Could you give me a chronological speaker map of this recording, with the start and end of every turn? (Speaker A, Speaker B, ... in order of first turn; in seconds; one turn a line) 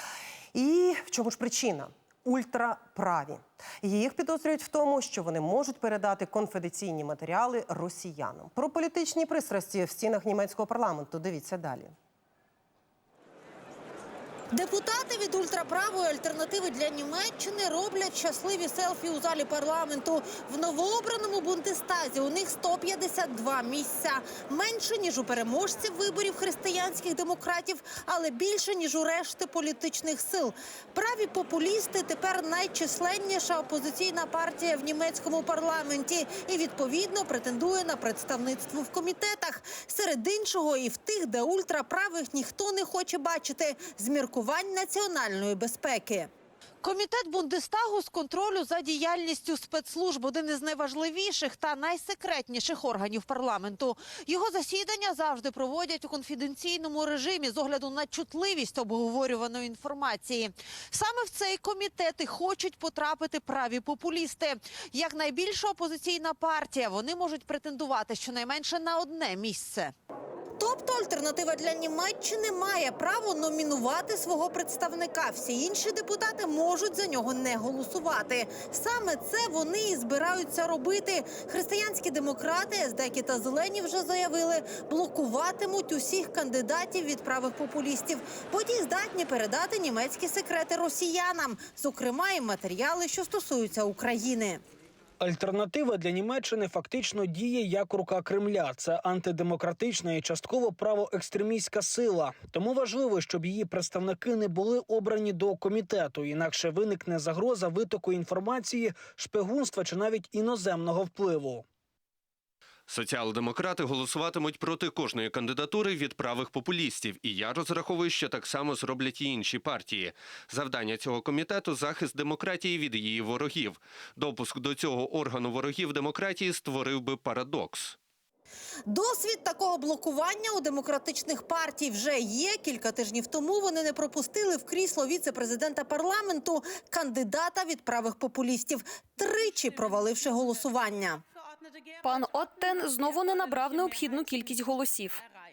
Speaker A: 0.5-11.9
Speaker B: 14.5-46.3
Speaker B: 46.8-69.9
Speaker B: 70.6-94.6
Speaker C: 95.2-111.6
Speaker D: 112.9-128.0
Speaker B: 128.9-141.2
Speaker E: 142.0-145.2